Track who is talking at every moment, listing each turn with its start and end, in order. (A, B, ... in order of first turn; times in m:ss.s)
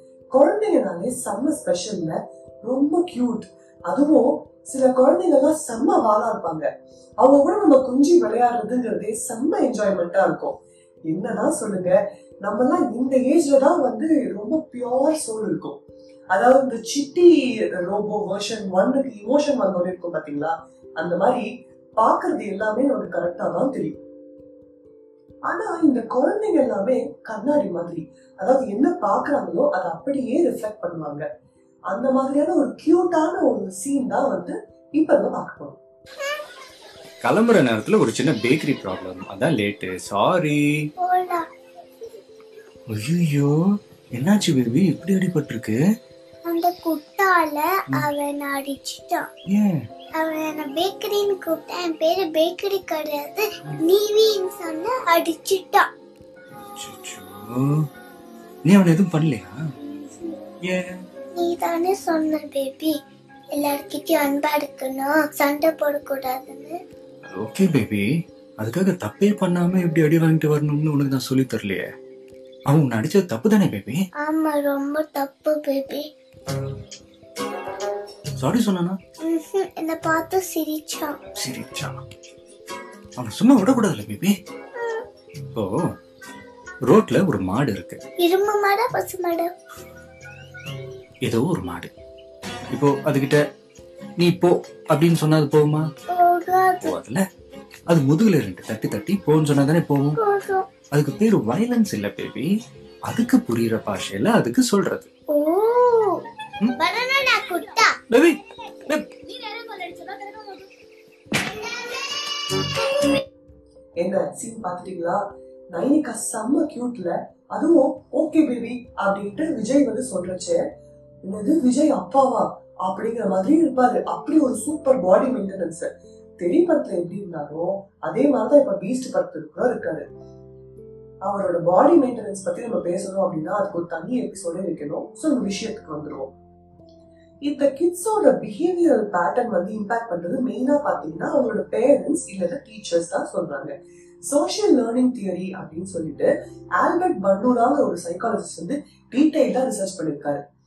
0:00.3-0:06.7 A
0:07.2-0:10.6 A
0:11.1-0:15.8 A
0:16.3-0:24.0 A
0:25.4-0:31.2 A
0:31.9-0:35.8 A
0:37.2-0:40.6 B
0:41.0-0:41.4 C
0:42.9-0:43.6 B
0:44.2-0:45.8 B
0:46.4-0:49.3 C
0:49.5-0:49.8 B
0:50.2-0:55.9 C
0:56.8-0:57.7 B
0:58.6-0:59.5 B
0:59.8-1:00.4 C
1:00.6-1:01.0 B
1:01.4-1:03.0 C
1:03.5-1:06.8 C
1:07.2-1:08.0 B
1:08.6-1:11.9 B
1:12.7-1:14.0 B
1:14.2-1:16.0 C
1:18.4-1:19.0 B
1:19.2-1:21.2 C
1:21.4-1:22.0 B
1:23.2-1:24.3 B
1:24.8-1:25.0 C
1:25.5-1:25.8 B
1:26.8-1:28.0 B
1:28.2-1:29.5 C
1:31.2-1:31.9 B
1:32.7-1:33.4 B
1:34.2-1:35.8 B
1:36.1-1:37.0 C
1:36.8-1:37.2 B
1:37.9-1:40.2 B
1:40.2-1:40.6 C
1:40.9-1:42.5 B
1:43.1-1:45.1 B
1:45.3-1:46.2 C
1:46.8-1:47.9 C
1:48.1-1:49.1 B
1:49.3-1:50.6 C
1:54.0-2:00.6 A
2:01.2-2:10.0 A
2:11.2-2:16.3 A
2:17.4-2:30.4 A